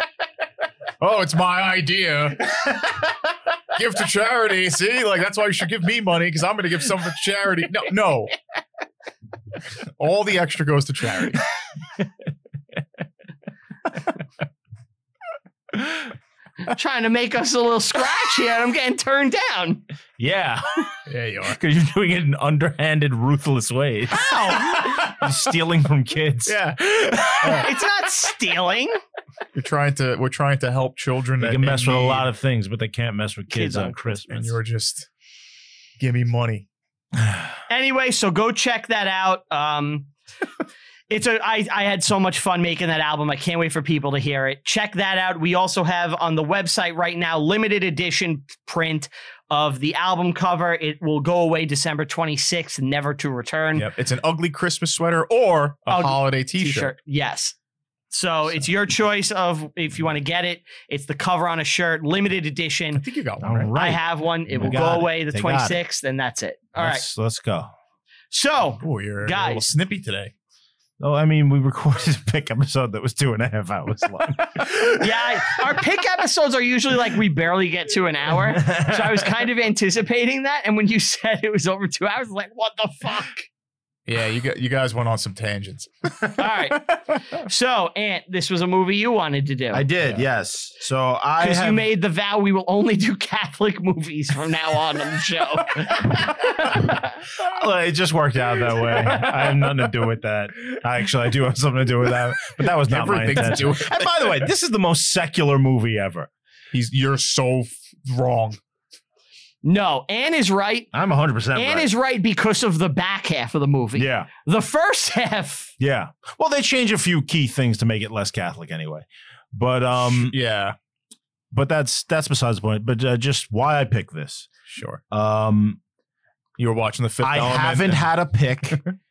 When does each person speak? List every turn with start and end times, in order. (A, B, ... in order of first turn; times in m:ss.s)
0:01.0-0:02.6 A
0:03.7-0:08.3 A
0:09.8-0:11.4 A
0:16.6-0:19.8 B
0:20.2-0:27.7 C
0:21.1-0:21.6 A
0:24.1-0:24.9 B
0:26.4-0:27.7 A
0:27.5-0:29.0 B
0:29.5-0:32.3 A
0:31.4-0:34.6 C
0:33.5-0:34.0 B
0:34.1-0:35.1 A
0:36.0-0:36.6 A
0:37.7-0:40.1 B
0:41.1-0:53.9 B
0:53.7-0:56.9 A
0:55.9-0:57.6 B
0:58.1-1:03.0 B
1:02.9-1:03.7 A
1:03.4-1:05.8 C
1:03.7-1:07.0 B
1:04.6-1:05.0 A
1:06.8-1:07.7 C
1:08.3-1:09.7 B
1:08.8-1:10.3 A
1:11.0-1:15.7 C
1:15.0-1:23.5 B
1:18.5-1:19.2 C
1:24.1-1:27.0 A
1:26.4-1:29.8 B
1:29.7-1:31.9 C
1:31.4-1:37.2 B
1:37.4-1:46.3 C
1:38.9-1:39.7 A
1:42.1-1:44.5 A
1:46.7-1:48.6 A
1:49.6-1:50.9 B
1:50.9-1:51.9 C
1:51.5-1:55.7 B
1:54.0-1:54.3 C
1:55.8-2:00.3 C
2:00.0-2:00.8 A
2:01.5-2:04.5 C
2:04.7-2:05.0 A
2:05.1-2:05.8 C
2:06.6-2:08.8 A
2:07.2-2:08.8 C